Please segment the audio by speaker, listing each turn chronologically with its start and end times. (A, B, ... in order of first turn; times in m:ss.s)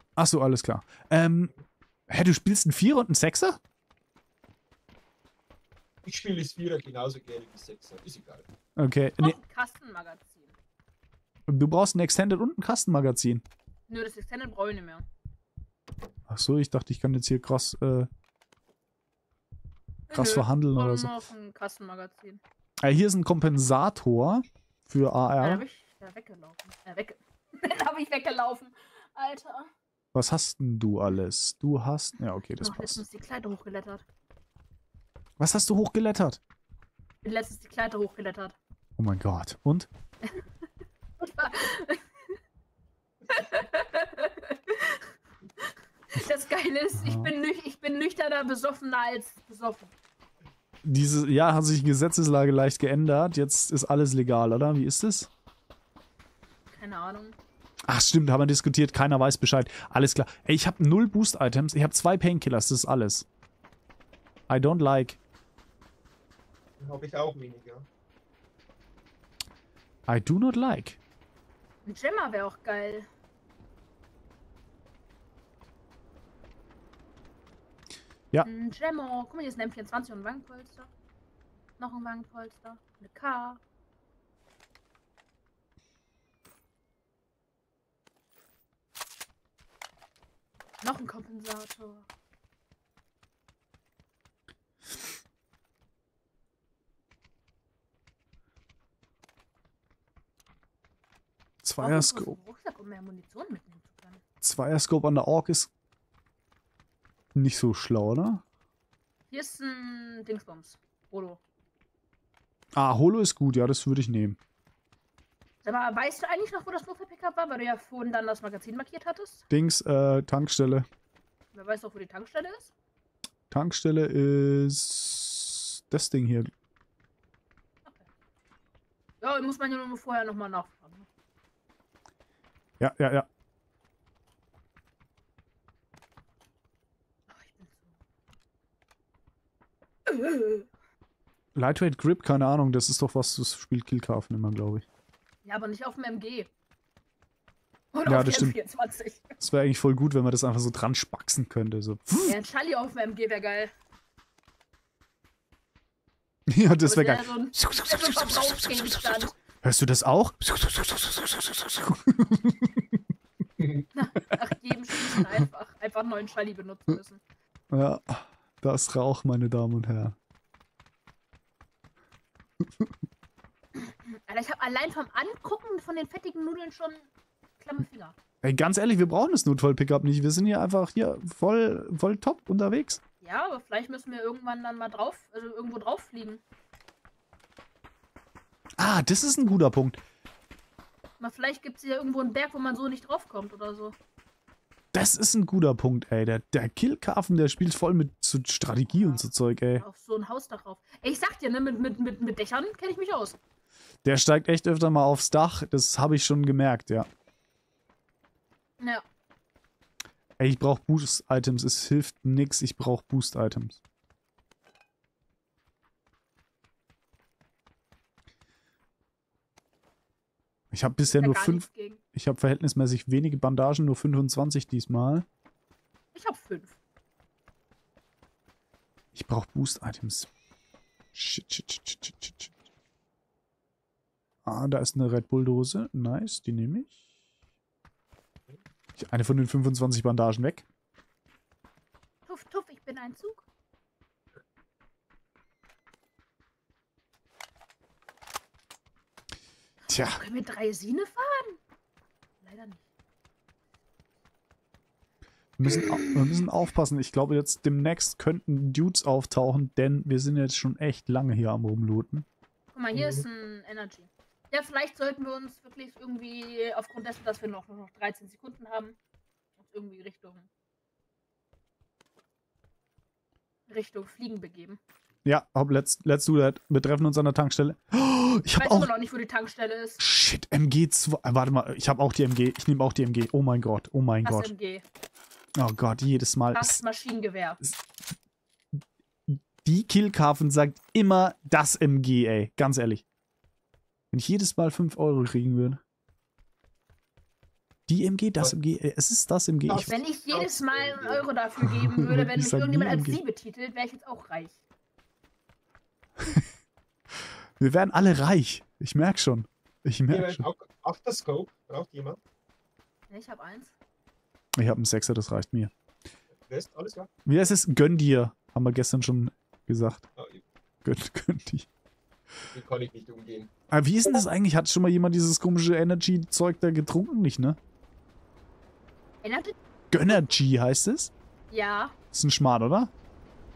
0:00.2-0:01.5 A
0:02.1-0:03.6 A
0:06.0-0:08.5 B
0:08.8-0:09.4 A
0:09.2-0:10.5 C
0:11.5-0:13.4 A
0:13.9-0:15.1 C
0:16.3-0:18.1 A
0:20.1-0:22.4 C
0:20.1-0:21.1 A
0:22.8-0:25.6 A
0:25.4-0:29.7 C
0:30.1-0:33.0 A
0:32.6-0:34.0 C
0:35.4-0:36.4 A
0:37.2-0:38.6 C
0:39.0-0:39.9 A
0:41.2-0:42.1 C
0:43.3-0:45.1 C
0:45.7-0:49.9 C
0:47.0-0:47.3 A
0:50.8-0:55.3 A
0:56.7-0:57.4 C
0:57.9-1:03.3 A
1:04.5-1:05.2 A
1:06.8-1:07.9 B
1:10.1-1:11.0 A
1:11.9-1:13.1 C
1:18.4-1:20.9 C
1:21.8-1:23.6 C
1:30.8-1:32.1 C
1:41.6-1:42.4 A
1:41.8-1:44.2 C
1:44.4-1:45.7 A
1:47.4-1:48.4 A
1:49.3-1:51.4 C
1:52.8-1:54.4 A
1:55.6-1:59.4 C
1:59.5-2:00.9 A
2:01.5-2:02.7 C
2:03.5-2:06.5 A
2:09.2-2:11.1 C
2:12.8-2:13.3 A
2:17.3-2:18.0 C
2:20.1-2:20.7 C
2:21.6-2:24.8 A
2:25.4-2:26.5 C
2:27.9-2:29.4 C
2:28.1-2:28.6 A
2:29.4-2:32.4 A
2:32.2-2:33.7 C
2:36.5-2:43.0 A
2:36.8-2:39.3 C
2:44.0-2:47.2 C
2:47.7-2:50.2 A
2:52.6-2:52.9 A
2:53.8-2:58.2 C
2:58.4-3:03.0 A
3:03.2-3:06.4 C
3:08.8-3:10.0 A
3:11.2-3:14.0 C
3:14.9-3:19.8 A
3:18.9-3:23.4 C
3:24.0-3:27.1 A
3:30.4-3:33.8 A
3:40.7-3:45.3 A
3:41.1-3:42.0 C
3:46.1-3:46.8 C
3:49.1-3:50.3 A
3:51.1-3:52.5 A
3:54.4-3:57.0 A
3:59.0-4:00.7 A
4:02.3-4:03.4 C
4:09.9-4:11.6 C
4:09.9-4:10.2 A
4:12.4-4:12.8 C
4:15.6-4:22.3 A
4:15.7-4:16.2 C
4:22.7-4:29.0 C
4:22.9-4:23.2 B
4:29.6-4:30.5 C
4:33.7-4:34.8 C
4:35.2-4:38.9 A
4:38.6-4:40.0 C
4:40.0-4:44.5 A
4:44.2-4:44.8 C
4:45.6-4:46.8 A
4:46.5-4:47.6 C
4:49.3-4:53.0 A
4:54.1-4:55.8 A
4:57.9-4:59.9 A
4:59.7-5:01.3 B
4:59.8-5:04.6 C
5:01.6-5:03.2 A
5:06.2-5:06.5 A
5:07.6-5:10.4 A
5:10.1-5:12.2 B
5:13.1-5:13.7 C
5:14.6-5:15.7 A
5:16.5-5:17.1 B
5:17.3-5:20.0 A
5:20.2-5:20.4 B
5:20.8-5:21.7 A
5:22.5-5:23.5 B
5:23.7-5:27.6 A
5:29.2-5:29.6 C
5:29.9-5:31.1 A
5:31.5-5:32.0 C
5:32.1-5:32.9 A